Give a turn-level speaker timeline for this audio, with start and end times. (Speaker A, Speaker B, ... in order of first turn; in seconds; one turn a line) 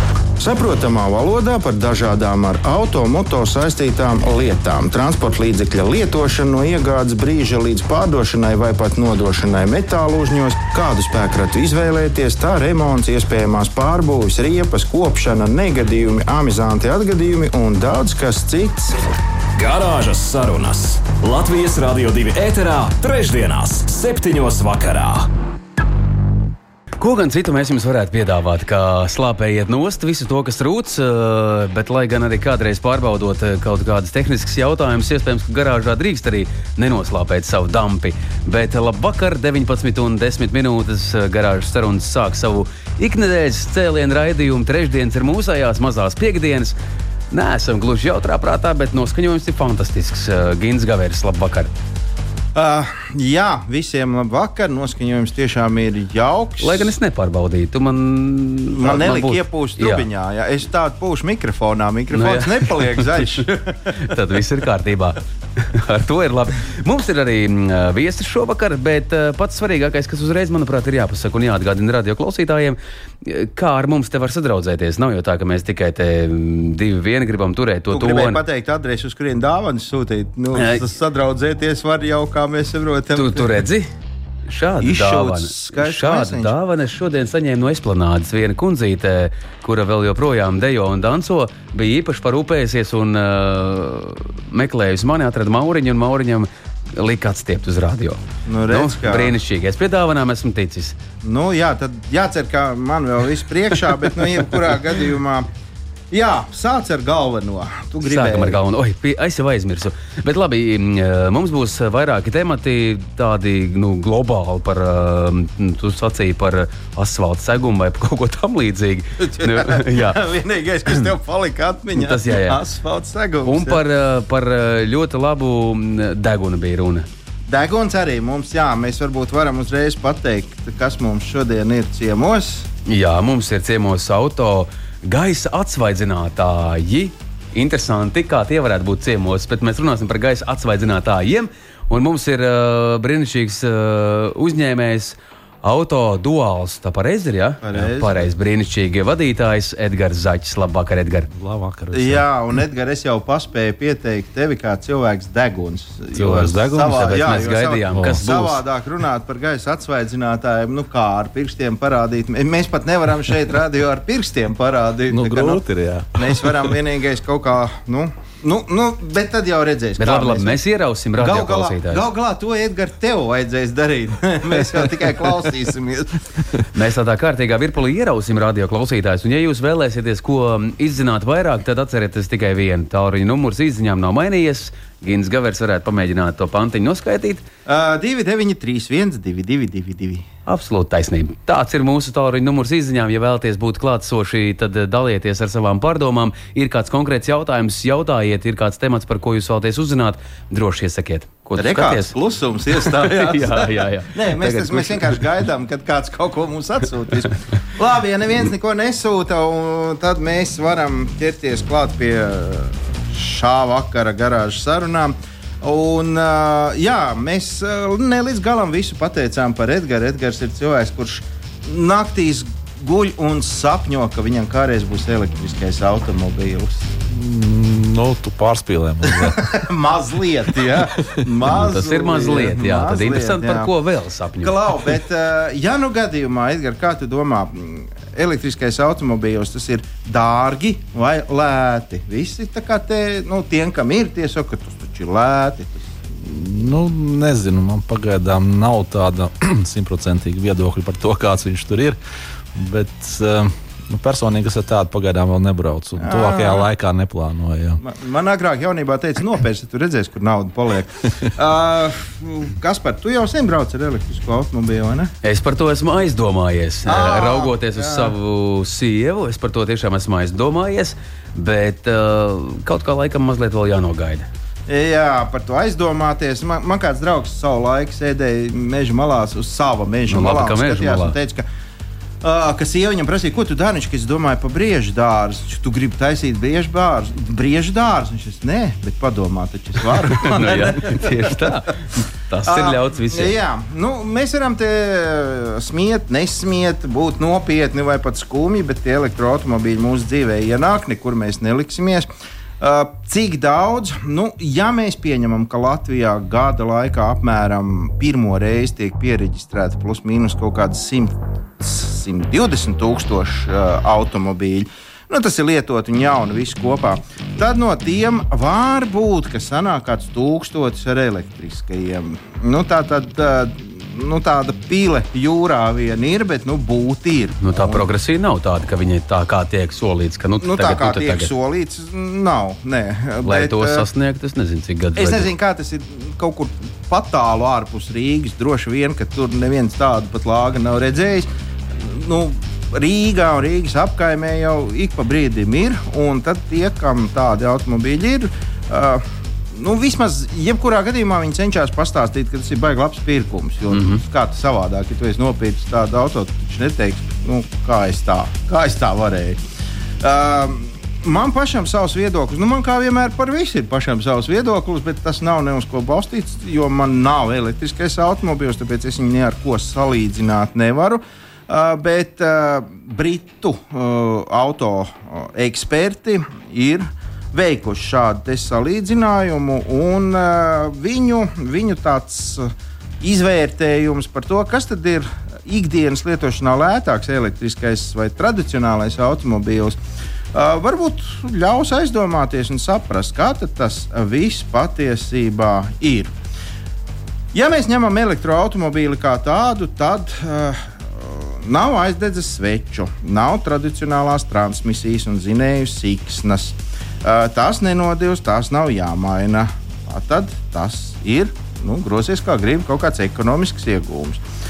Speaker A: 0.4-19.0
Speaker B: 19.6-25.3
Speaker C: 27.0-46.8
Speaker C: 47.3-51.7
Speaker A: 52.5-56.9
Speaker C: 56.6-60.0
Speaker A: 58.7-63.7
Speaker C: 62.1-78.4
Speaker A: 77.9-83.6
Speaker C: 80.5-80.8
Speaker C: 83.1-83.9
Speaker C: 84.5-101.0
Speaker A: 84.8-86.5
Speaker A: 98.5-99.3
Speaker A: 101.2-105.5
Speaker A: 106.1-108.6
Speaker C: 108.0-120.2
Speaker A: 119.2-123.8
Speaker C: 121.9-122.6
Speaker C: 123.5-127.1
Speaker A: 127.5-132.7
Speaker C: 132.8-151.3
Speaker A: 147.6-148.3
Speaker D: 151.3-152.2
Speaker A: 151.9-165.6
Speaker D: 156.1-157.1
Speaker C: 156.9-158.6
Speaker D: 157.9-158.2
Speaker D: 165.1-166.8
Speaker A: 166.1-170.6
Speaker C: 170.0-172.0
Speaker A: 171.2-176.2
Speaker C: 176.7-187.4
Speaker A: 187.7-190.2
Speaker C: 190.4-202.1
Speaker A: 201.6-226.8
Speaker C: 202.7-205.2
Speaker D: 227.1-229.5
Speaker A: 229.1-233.7
Speaker C: 231.5-234.6
Speaker A: 234.4-245.9
Speaker D: 246.2-252.0
Speaker D: 252.5-257.8
Speaker A: 256.0-256.7
Speaker A: 257.8-265.1
Speaker C: 265.2-274.3
Speaker A: 266.9-268.1
Speaker A: 274.7-281.4
Speaker C: 280.1-281.1
Speaker A: 282.2-291.6
Speaker C: 290.1-293.3
Speaker A: 292.4-302.1
Speaker A: 302.6-327.8
Speaker C: 327.4-331.3
Speaker A: 330.4-333.8
Speaker C: 333.2-335.3
Speaker A: 334.9-359.4
Speaker C: 353.7-354.0
Speaker A: 360.0-389.8
Speaker A: 390.3-396.1
Speaker A: 397.3-414.2